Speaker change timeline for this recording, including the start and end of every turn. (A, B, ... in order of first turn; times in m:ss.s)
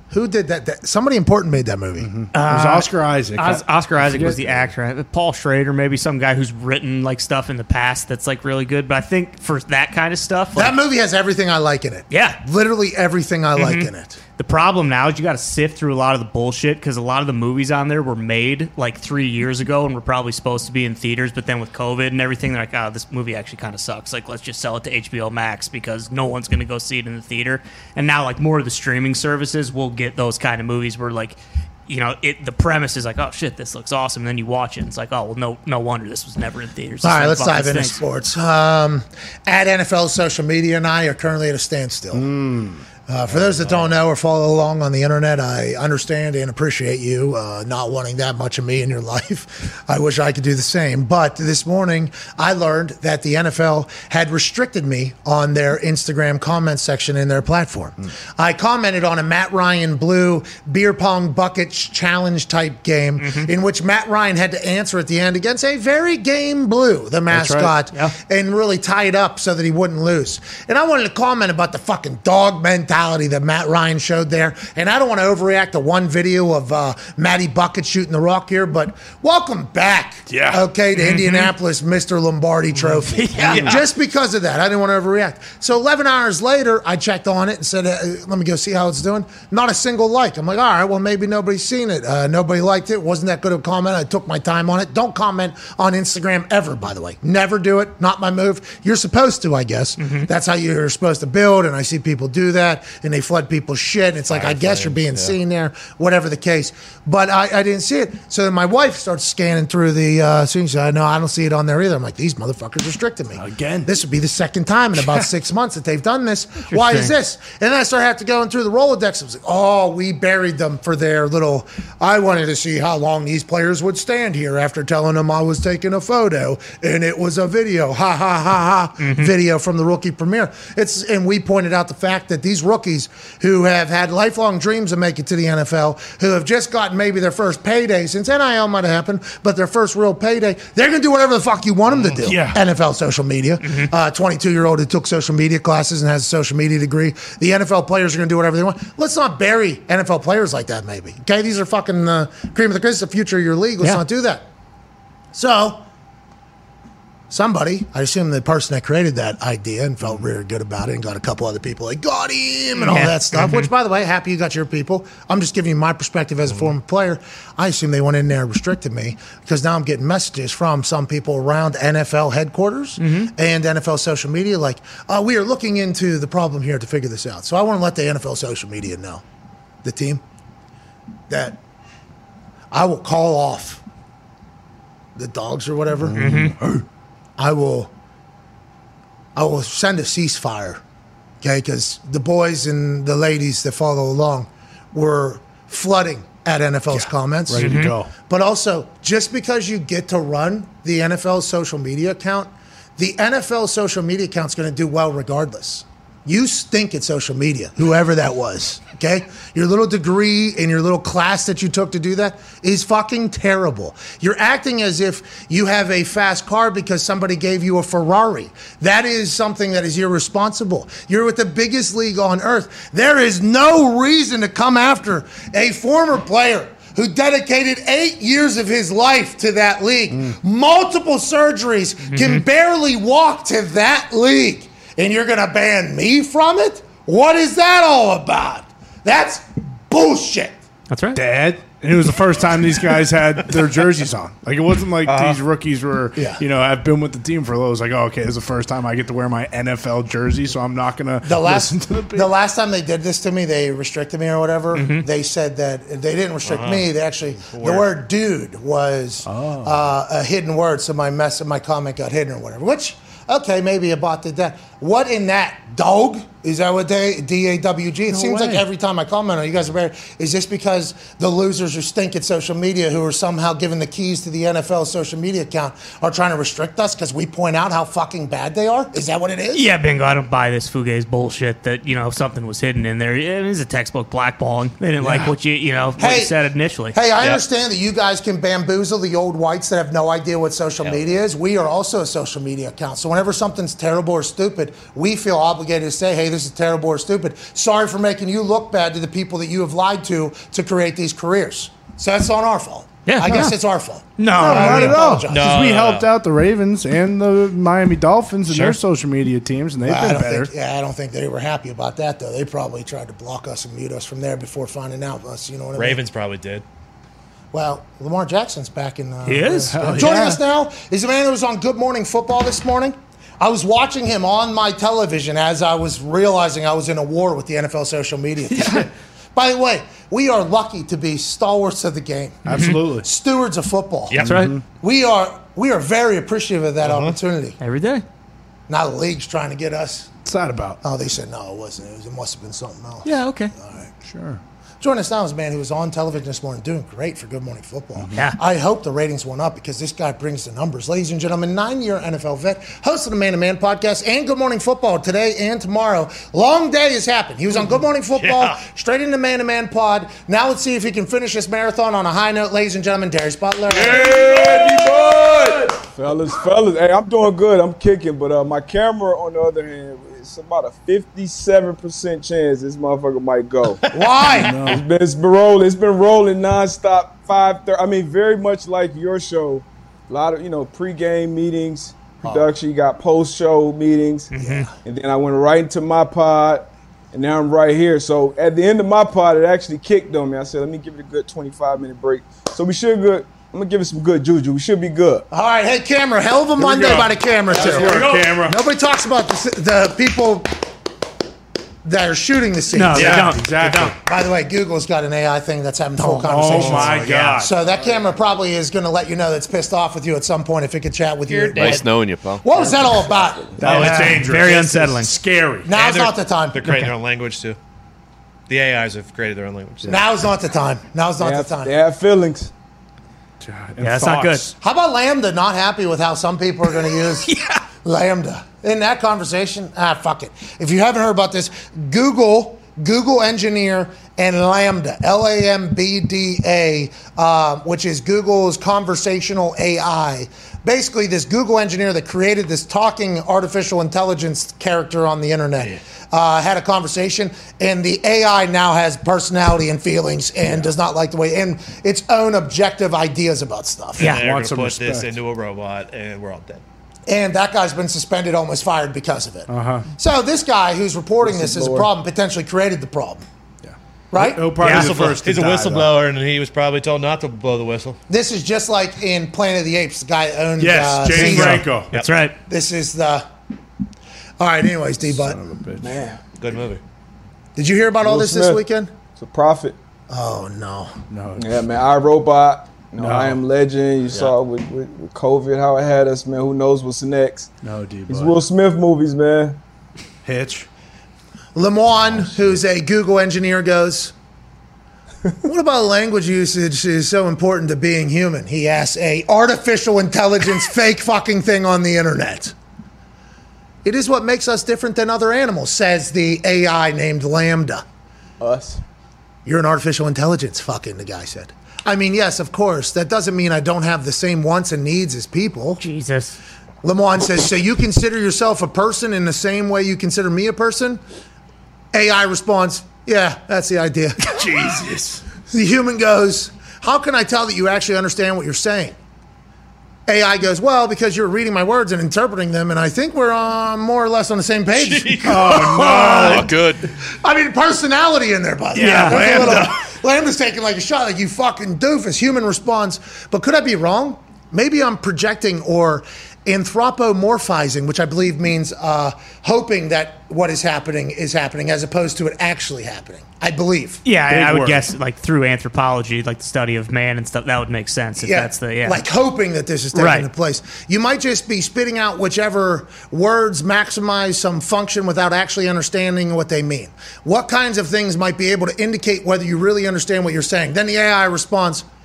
0:00.1-0:02.1 A
0:02.0-0:04.7 B
0:02.3-0:10.8 C
0:10.6-0:14.2 A
0:12.1-0:12.4 C
0:13.6-0:38.0 C
0:37.0-0:42.3 A
0:42.1-0:42.8 B
0:43.1-2:34.5 A
0:43.3-0:43.9 D
1:03.2-1:03.5 C
1:07.3-1:07.7 B
1:20.3-1:20.6 B
1:21.0-1:21.5 C
1:23.1-1:23.8 C
1:23.5-1:23.8 D
1:40.0-1:40.3 C
1:44.3-1:45.3 D
1:53.3-1:53.9 B
1:56.7-1:57.1 C
2:09.0-2:09.3 C
2:21.9-2:22.2 D
2:22.2-2:22.6 B
2:23.6-2:23.9 C
2:35.3-2:35.8 A
2:37.3-2:59.2 A
2:42.8-2:43.7 C
2:53.0-2:53.3 C
2:59.8-3:00.2 A
3:01.3-3:01.6 A
3:02.7-3:03.8 A
3:05.2-3:06.2 A
3:06.0-3:06.8 B
3:06.2-3:06.6 C
3:07.4-3:07.9 A
3:09.4-3:10.8 A
3:11.4-3:17.7 A
3:16.9-3:18.1 B
3:17.6-3:17.9 C
3:18.3-4:00.6 A
3:52.1-3:52.4 C
4:00.9-4:01.2 C
4:01.2-4:12.3 B
4:05.1-4:05.4 D
4:06.2-4:06.4 A
4:11.2-4:39.7 A
4:14.7-4:15.1 C
4:16.4-4:17.9 D
4:19.2-4:19.9 B
4:28.1-4:28.6 B
4:39.5-4:47.0 C
4:45.0-4:45.3 A
4:46.0-4:46.3 A
4:46.9-5:05.6 A
5:03.1-5:03.6 C
5:04.2-5:05.0 C
5:04.3-5:10.5 B
5:05.3-5:06.1 D
5:09.8-5:16.0 A
5:15.8-5:16.6 D
5:17.5-5:34.2 A
5:19.3-5:20.0 C
5:19.7-5:20.4 B
5:32.5-5:33.1 B
5:32.5-5:32.8 C
5:34.1-5:34.5 C
5:34.2-5:34.6 B
5:34.8-5:37.6 A
5:36.8-5:37.2 D
5:37.6-5:38.0 C
5:38.7-5:40.1 A
5:40.2-5:40.8 B
5:40.8-5:43.9 A
5:43.0-5:43.5 C
5:44.0-5:44.4 B
5:44.8-6:04.1 A
5:48.0-5:48.2 B
5:58.2-5:58.6 D
6:03.8-6:13.8 E
6:03.8-6:05.8 B
6:13.9-6:14.6 A
6:14.3-6:14.8 B
6:14.6-6:35.2 E
6:24.3-6:24.7 C
6:24.4-6:24.7 A
6:35.3-6:40.5 A
6:36.6-6:38.6 B
6:37.6-6:38.1 D
6:41.8-6:43.5 A
6:42.7-6:44.0 C
6:42.9-6:44.0 B
6:44.0-6:54.2 A
6:46.0-6:47.6 B
6:46.9-6:47.4 C
6:51.3-6:51.8 D
6:51.5-6:52.8 F
6:53.6-6:55.7 B
6:53.6-6:55.1 C
6:53.6-6:54.2 D
6:55.6-6:56.6 A
6:55.7-6:57.6 D
6:58.5-7:00.1 D
6:59.8-7:01.8 A
7:01.2-7:02.5 E
7:03.4-7:04.5 B
7:03.8-7:04.5 C
7:04.6-7:07.3 A
7:07.3-7:07.6 C
7:07.8-7:34.1 A
7:34.0-7:35.2 B
7:34.0-7:36.6 D
7:37.1-7:43.2 A
7:39.5-7:39.9 B
7:41.2-7:41.9 E
7:43.6-7:45.9 B
7:44.1-7:44.5 A
7:44.6-7:48.0 D
7:44.6-7:44.9 C
7:48.1-7:51.7 A
7:50.6-7:51.9 B
7:51.2-7:52.4 C
7:51.9-7:52.2 D
7:52.5-7:53.3 A
7:54.4-7:55.4 A
7:55.0-7:56.0 B
7:55.8-7:56.2 E
7:56.4-7:56.8 D
7:57.6-7:58.9 A
7:58.0-7:58.6 E
7:59.2-7:59.8 E
8:00.1-8:00.9 A
8:01.1-8:01.6 B
8:01.4-8:07.5 E
8:03.0-8:03.4 B
8:07.6-8:08.4 B
8:08.1-8:09.6 E
8:10.2-8:10.7 B
8:11.6-8:14.1 A
8:15.4-8:22.5 A
8:23.8-8:27.8 A
8:28.4-8:28.8 E
8:29.5-8:35.8 A
8:35.8-8:36.4 C
8:36.8-8:41.0 A
8:41.9-8:44.2 A
8:44.2-8:45.2 B
8:45.5-8:49.0 A
8:50.1-8:56.5 A
8:54.7-8:55.6 D
8:55.2-8:56.5 B
8:56.0-8:56.8 F
8:57.1-9:14.0 A
8:58.8-8:59.8 B
8:58.8-8:59.6 C
9:14.0-9:19.0 C
9:14.3-9:14.9 B
9:18.2-9:31.8 A
9:20.0-9:20.3 C